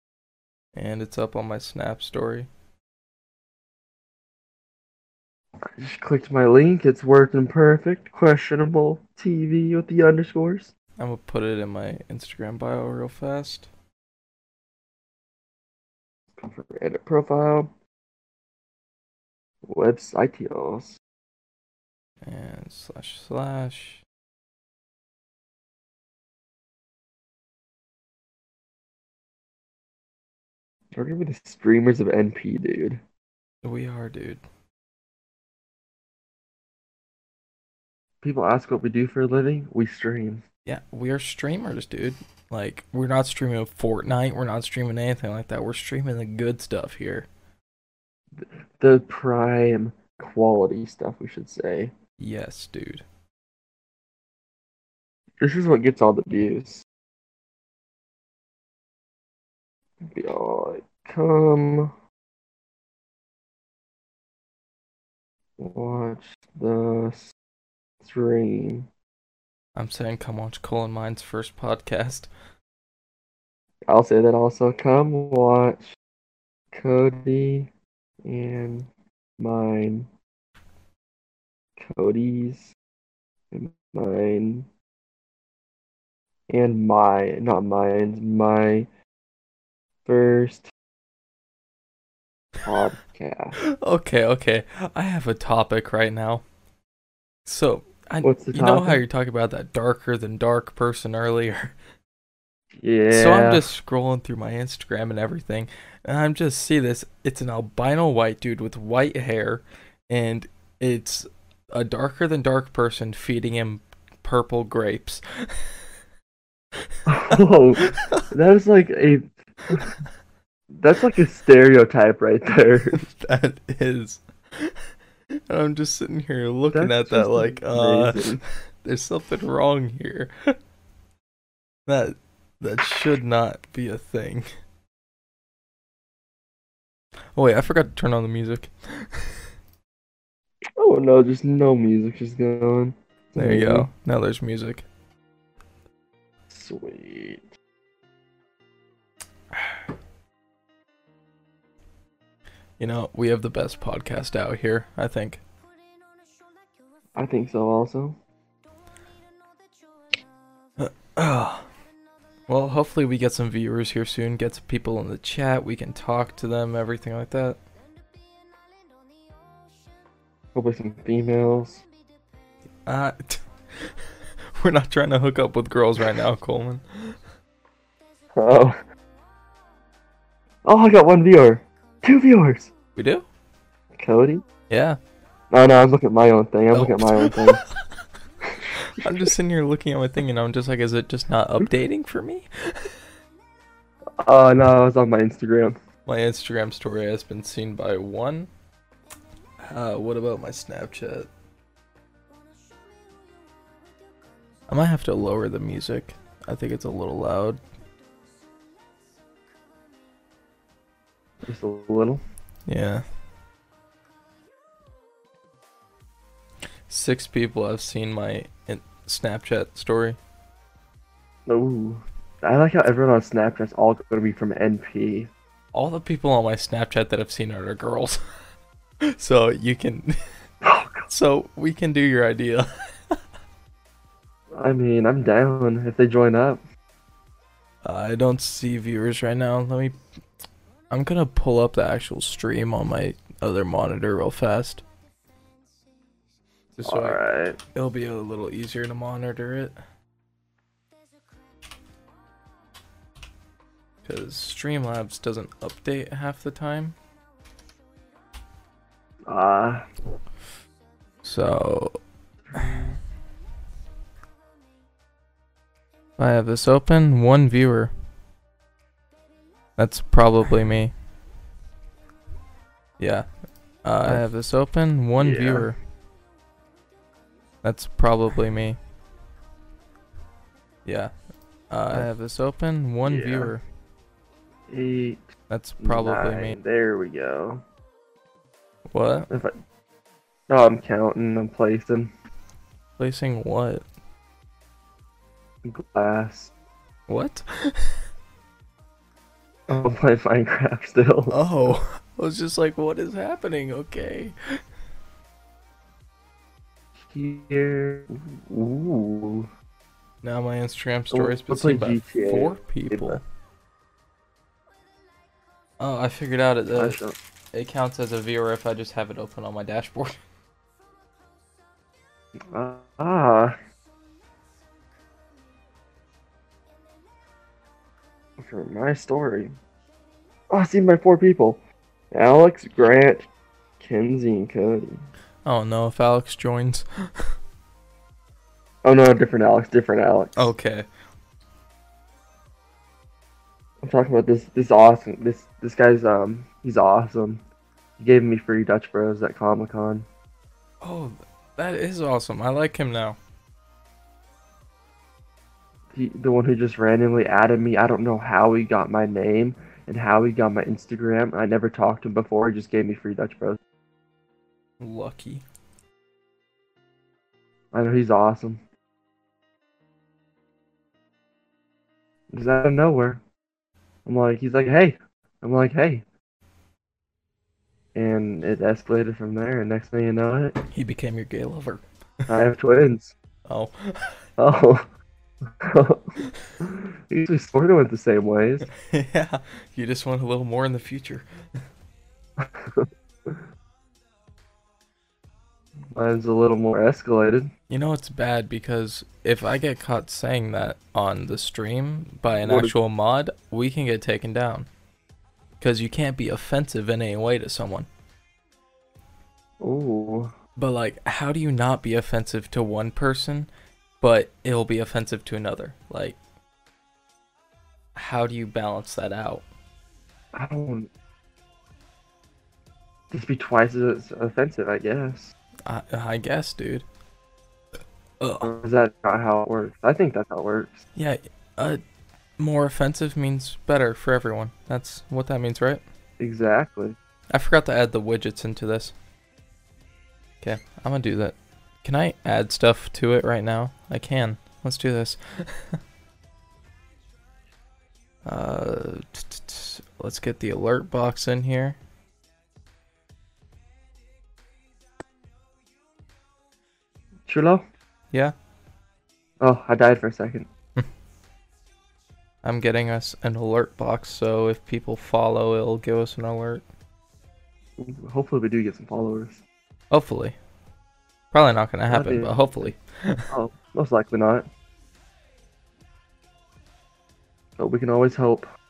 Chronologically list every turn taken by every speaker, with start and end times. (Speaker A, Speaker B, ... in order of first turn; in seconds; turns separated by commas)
Speaker A: 0.8-2.5, Speaker B: 5.8-10.7, Speaker A: 11.0-13.7, Speaker B: 16.4-17.7, Speaker B: 19.7-21.0, Speaker A: 22.2-24.0, Speaker B: 30.9-33.0, Speaker A: 33.6-34.4, Speaker B: 38.2-40.4, Speaker A: 40.7-47.3, Speaker B: 48.4-51.9, Speaker A: 52.2-53.0, Speaker B: 55.4-56.9, Speaker B: 60.0-61.9, Speaker B: 65.6-67.3, Speaker B: 68.0-68.9, Speaker A: 69.8-72.3, Speaker B: 73.9-76.0, Speaker B: 76.7-77.7, Speaker B: 78.2-80.1, Speaker B: 81.8-82.7, Speaker B: 83.5-84.7, Speaker B: 86.5-88.9, Speaker B: 90.0-90.7, Speaker B: 92.6-93.6, Speaker A: 93.7-96.4, Speaker A: 97.5-101.8, Speaker B: 98.2-99.0, Speaker B: 102.8-103.7, Speaker A: 103.1-115.7, Speaker B: 117.1-119.9, Speaker B: 120.7-123.1, Speaker A: 122.9-124.8, Speaker A: 125.3-130.6, Speaker B: 126.7-128.4, Speaker A: 131.9-134.5, Speaker A: 137.3-139.4, Speaker B: 140.8-143.9, Speaker A: 143.4-144.9, Speaker B: 146.5-147.5, Speaker A: 152.8-155.4, Speaker B: 157.2-158.2, Speaker A: 160.8-161.7, Speaker A: 162.5-167.6, Speaker B: 170.5-171.8, Speaker A: 172.8-173.9, Speaker A: 174.5-177.2, Speaker B: 178.3-178.8, Speaker B: 180.7-182.7, Speaker A: 183.0-183.3, Speaker B: 184.0-184.4, Speaker A: 184.7-185.0, Speaker B: 185.5-187.6, Speaker A: 186.7-187.7, Speaker B: 188.6-189.3, Speaker A: 188.8-192.9, Speaker B: 194.2-195.8, Speaker A: 196.1-198.5, Speaker A: 199.6-201.3, Speaker A: 204.7-207.6, Speaker B: 211.4-212.2, Speaker A: 212.7-213.1, Speaker A: 216.9-220.2, Speaker B: 221.5-225.3, Speaker A: 225.7-228.2, Speaker A: 229.0-230.2, Speaker B: 230.6-231.1, Speaker A: 231.1-233.2, Speaker B: 234.5-236.6, Speaker A: 237.8-240.0, Speaker A: 240.9-244.8, Speaker A: 246.8-247.2, Speaker B: 246.9-247.6, Speaker A: 247.8-249.8, Speaker A: 254.1-257.0, Speaker B: 259.3-259.9, Speaker A: 261.2-262.0, Speaker B: 262.5-263.0, Speaker A: 266.2-267.9, Speaker A: 269.8-270.9, Speaker A: 273.0-273.3, Speaker A: 273.8-275.8, Speaker B: 275.2-275.7, Speaker A: 277.6-278.8, Speaker A: 280.9-281.1, Speaker A: 281.7-283.6, Speaker B: 283.1-283.5, Speaker B: 284.7-285.2, Speaker A: 285.5-286.6, Speaker B: 285.8-287.6, Speaker A: 288.9-289.3, Speaker B: 290.5-292.1, Speaker A: 293.0-293.9, Speaker B: 295.6-296.5, Speaker A: 297.1-298.0, Speaker B: 299.7-301.4, Speaker A: 301.3-304.6, Speaker B: 307.0-309.5, Speaker A: 310.2-313.2, Speaker B: 311.1-313.2, Speaker A: 315.8-317.0, Speaker B: 316.7-317.2, Speaker A: 317.5-320.2, Speaker B: 322.5-323.6, Speaker B: 328.4-329.6, Speaker B: 330.5-331.6, Speaker B: 332.1-333.3, Speaker B: 333.8-335.0, Speaker A: 335.4-337.3, Speaker B: 338.8-340.5, Speaker A: 340.4-340.9, Speaker B: 343.8-347.4, Speaker B: 348.0-350.1, Speaker A: 350.8-353.2, Speaker B: 355.9-363.6, Speaker A: 364.8-365.4, Speaker B: 367.7-368.6, Speaker B: 372.3-373.2, Speaker B: 374.1-376.1, Speaker B: 377.9-380.6, Speaker A: 380.7-381.8, Speaker B: 382.3-383.1, Speaker A: 383.5-384.2, Speaker B: 384.4-384.9, Speaker B: 385.6-388.7, Speaker A: 388.7-391.3, Speaker B: 392.4-393.4, Speaker B: 395.9-397.5, Speaker A: 397.7-404.7, Speaker B: 402.4-402.7, Speaker A: 405.6-407.9, Speaker B: 409.6-410.3, Speaker A: 410.6-413.5, Speaker A: 414.0-416.2, Speaker A: 417.9-419.4, Speaker B: 420.3-420.9, Speaker B: 423.1-425.3, Speaker A: 425.7-426.9, Speaker A: 428.2-428.5, Speaker B: 428.4-430.8, Speaker A: 430.9-431.8, Speaker A: 432.4-435.8, Speaker B: 436.2-437.0, Speaker A: 437.3-438.9, Speaker A: 440.4-445.8, Speaker A: 448.2-451.8, Speaker B: 457.3-457.6, Speaker B: 459.4-460.5, Speaker A: 462.4-466.6, Speaker B: 467.8-469.4, Speaker A: 469.9-470.4, Speaker A: 471.3-473.2, Speaker B: 471.9-472.7, Speaker B: 473.3-474.5, Speaker B: 477.6-478.5